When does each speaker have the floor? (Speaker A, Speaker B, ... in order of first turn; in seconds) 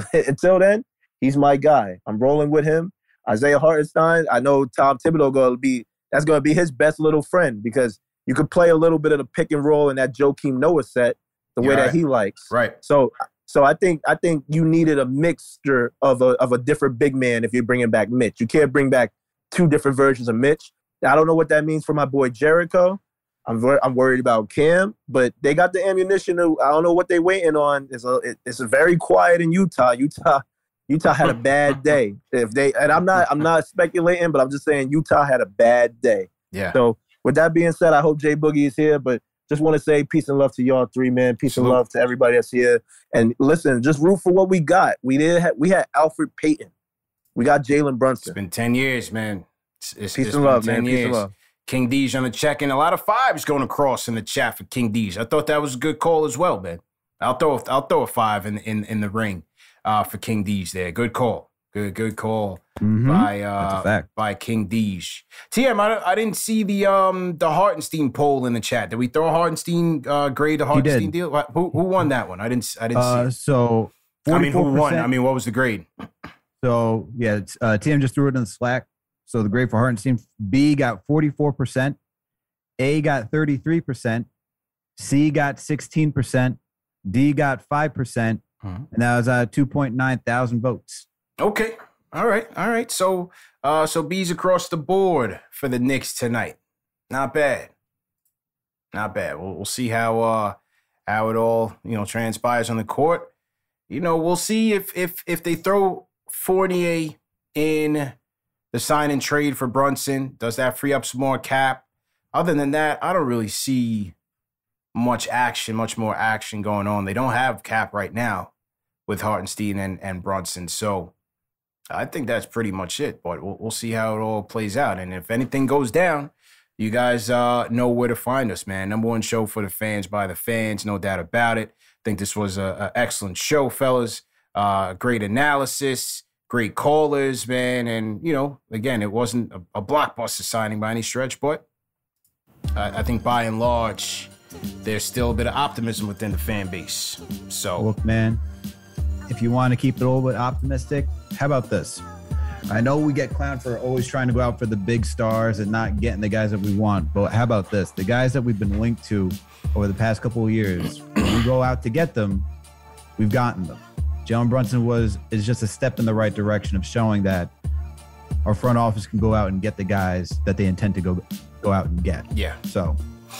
Speaker A: 0.1-46.7, 47.4-48.3, 50.1-51.3
Speaker B: 11.6-12.0, 12.5-12.8, 36.5-36.8, 41.5-41.8, 48.2-73.3, 74.3-75.9, 91.4-96.6, 97.1-97.7, 98.9-103.3, 103.9-108.1, 108.7-114.1, 114.9-118.5, 119.1-121.1, 121.9-141.6, 142.7-144.3, 144.8-147.9, 172.3-172.6
Speaker C: 62.8-64.1, 70.7-71.1, 72.9-75.1, 76.6-82.0, 82.8-84.2, 85.0-91.0, 147.8-148.4, 149.3-152.0, 152.7-162.4, 163.2-167.5, 168.4-173.0